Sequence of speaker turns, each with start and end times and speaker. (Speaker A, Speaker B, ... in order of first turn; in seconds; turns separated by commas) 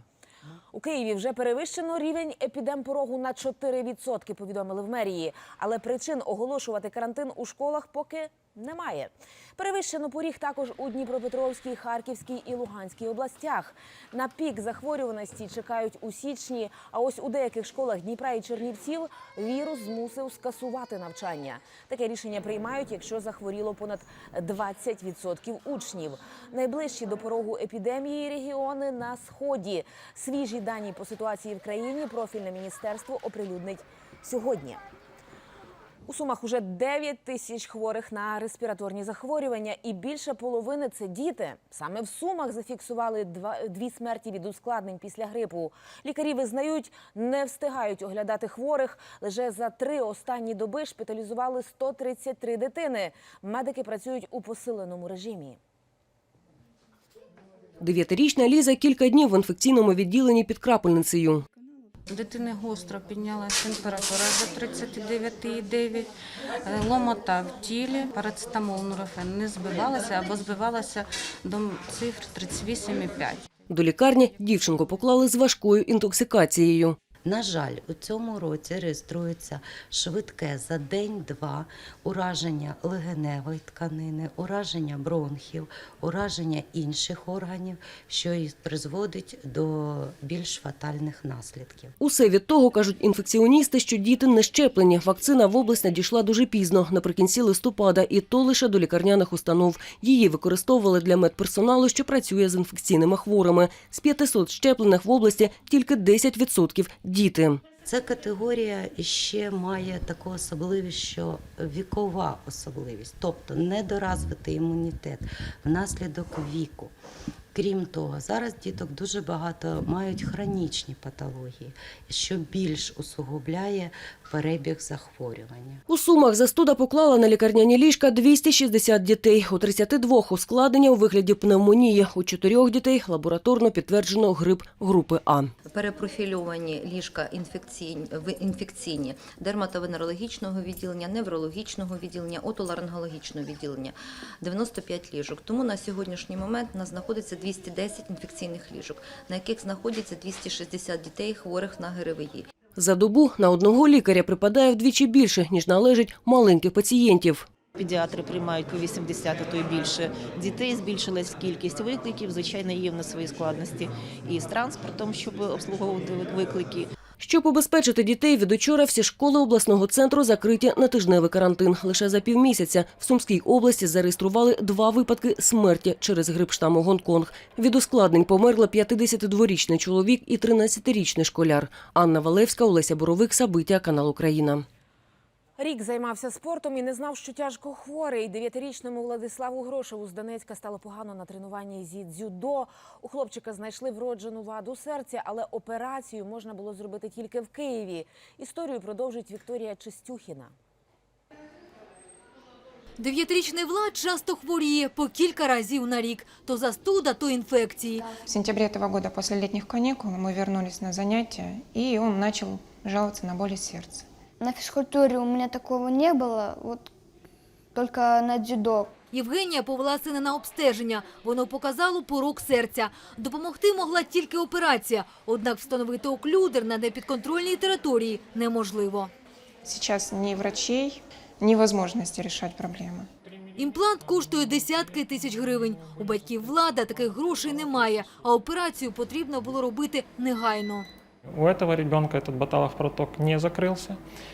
Speaker A: 0.7-34.8, Speaker A: 36.1-55.6, Speaker B: 57.8-61.4, Speaker C: 62.1-66.1, Speaker C: 66.6-73.4, Speaker B: 73.7-77.0, Speaker D: 77.2-91.9, Speaker B: 92.0-107.7, Speaker D: 107.8-116.9, Speaker D: 117.5-125.8, Speaker B: 125.9-135.5, Speaker E: 135.6-152.4, Speaker B: 152.8-157.5, Speaker F: 157.8-166.9, Speaker B: 167.2-184.6, Speaker A: 185.6-200.5, Speaker G: 203.0-208.1, Speaker H: 208.2-214.0, Speaker I: 214.4-216.9, Speaker I: 217.7-218.9, Speaker G: 219.1-229.1, Speaker H: 229.6-233.1, Speaker G: 233.6-240.9, Speaker J: 241.3-244.0